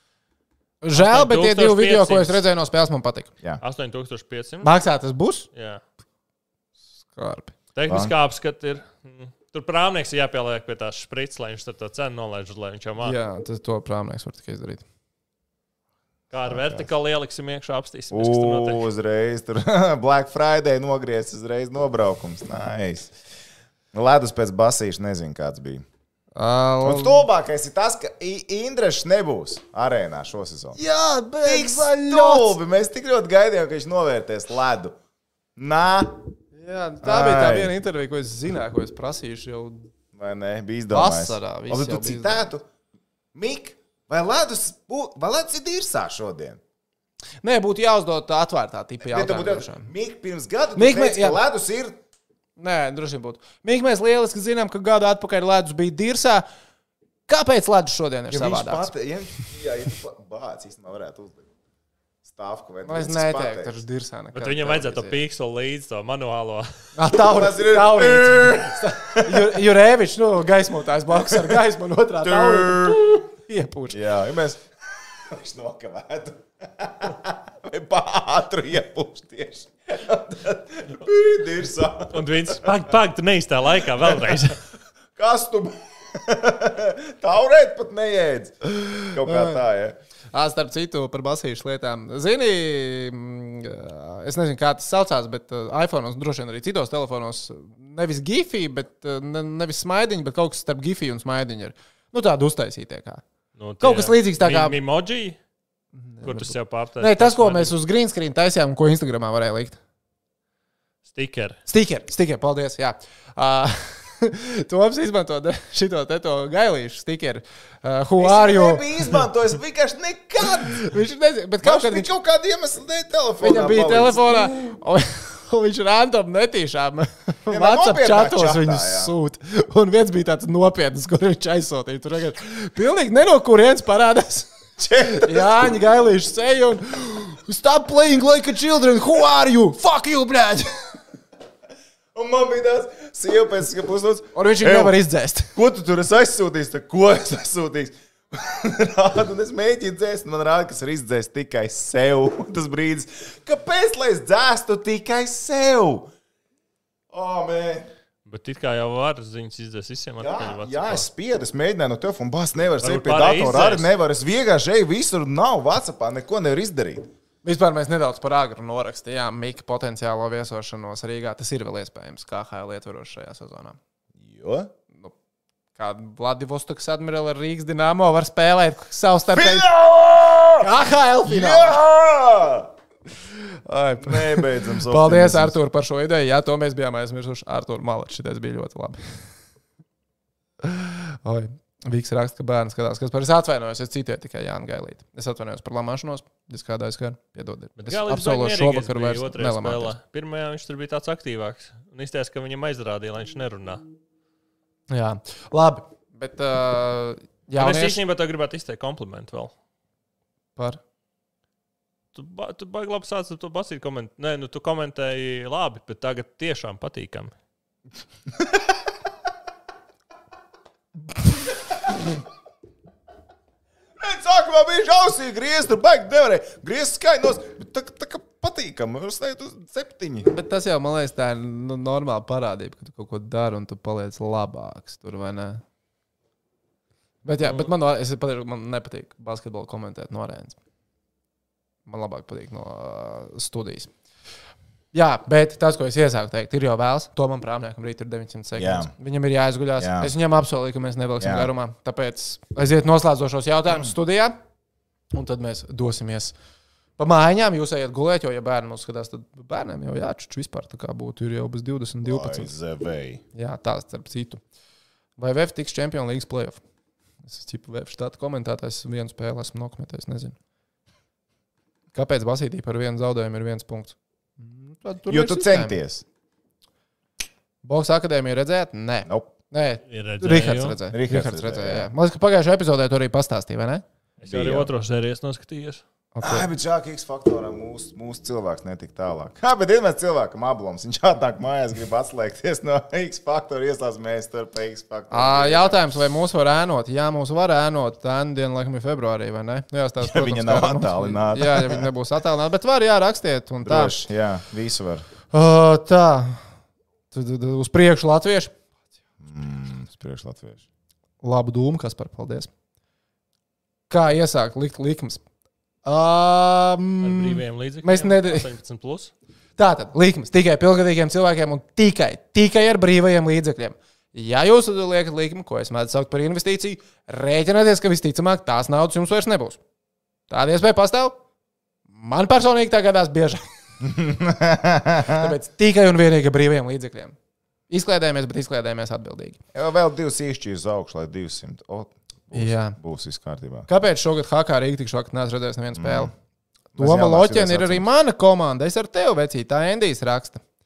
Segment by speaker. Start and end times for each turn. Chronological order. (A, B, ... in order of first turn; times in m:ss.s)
0:00.8-0:03.3 A
0:00.9-0:02.4 B
0:03.6-0:04.7 B
0:04.6-0:05.5 A
0:05.5-0:05.8 B
0:07.1-0:07.5 A
0:07.7-0:13.2 B
0:07.9-0:08.1 C
0:13.0-0:14.8 A
0:16.3-0:18.8 B
0:16.4-0:16.9 C
0:18.1-0:23.1 C
0:23.9-0:25.8 C
0:26.4-0:27.2 A
0:26.8-0:30.8 C
0:30.7-0:32.6 A
0:31.4-0:34.9 C
0:35.6-0:36.2 C
0:36.5-0:39.9 A
0:37.0-0:37.7 C
0:40.1-0:42.6 C
0:40.9-0:42.5 A
0:43.3-0:46.6 C
0:47.4-0:49.9 A
0:49.0-0:52.0 C
0:50.8-0:51.4 A
0:52.6-0:56.4 A
0:57.3-0:58.9 A
0:58.3-1:01.4 C
1:02.2-1:03.8 C
1:02.8-1:05.2 A
1:04.3-1:06.7 B
1:06.9-1:14.0 A
1:07.1-1:09.6 C
1:11.1-1:11.6 C
1:12.2-1:13.1 C
1:13.9-1:22.8 C
1:22.1-1:24.6 B
1:24.1-1:24.5 C
1:25.2-1:30.0 C
1:28.8-1:29.6 A
1:30.3-1:43.2 A
1:43.5-1:45.4 B
1:43.8-1:44.8 A
1:46.0-1:49.8 A
1:46.2-1:47.7 B
1:51.1-1:51.6 B
1:51.6-1:59.2 A
1:58.2-2:00.9 C
2:00.6-2:02.1 A
2:01.6-2:04.5 C
2:03.4-2:20.7 A
2:07.5-2:09.1 C
2:14.8-2:15.7 C
2:22.1-2:25.0 C
2:24.3-2:25.5 A
2:25.5-2:36.1 C
2:37.1-2:37.9 C
2:38.2-2:41.0 B
2:40.2-2:47.1 C
2:42.8-2:43.9 B
2:47.4-2:53.8 A
2:54.2-2:54.7 C
2:55.8-2:59.7 A
2:59.3-3:00.7 C
3:00.6-3:01.8 A
3:01.2-3:02.7 C
3:03.4-3:09.2 A
3:04.0-3:05.6 C
3:10.6-3:19.9 A
3:17.8-3:23.8 B
3:24.9-3:28.0 A
3:27.6-3:29.5 B
3:30.6-3:30.8 A
3:32.1-3:37.3 B
3:44.0-3:50.3 C
3:50.2-3:55.6 A
3:57.2-4:00.6 A
3:57.4-3:57.7 B
4:01.8-4:03.9 A
4:04.9-4:14.3 A
4:08.6-4:08.9 C
4:09.8-4:10.1 C
4:11.2-4:11.5 C
4:15.1-4:16.3 A
4:17.0-4:22.5 A
4:22.0-4:23.2 C
4:23.3-4:24.4 A
4:25.2-4:26.6 A
4:27.2-4:30.3 A
4:31.9-4:35.8 A
4:35.1-4:36.0 C
4:37.6-4:43.8 A
4:39.0-4:39.3 C
4:39.9-4:40.8 B
4:40.9-4:41.9 C
4:44.2-4:45.8 B
4:44.2-4:44.7 C
4:46.1-4:46.5 A
4:46.2-4:55.8 C
4:55.1-5:04.0 A
5:00.0-5:01.9 C
5:03.6-5:05.0 C
5:05.3-5:06.4 A
5:07.1-5:08.5 A
5:09.2-5:10.6 C
5:11.2-5:12.5 A
5:13.9-5:15.2 A
5:15.8-5:18.5 A
5:17.0-5:19.1 B
5:19.6-5:29.6 A
5:30.3-5:31.2 A
5:31.9-5:33.4 A
5:33.8-5:35.3 C
5:35.0-5:37.2 A
5:37.7-5:39.4 A
5:39.5-5:43.7 C
5:42.3-5:42.8 A
5:43.7-5:46.1 A
5:45.7-5:46.1 C
5:46.7-5:47.8 C
5:46.7-5:50.4 A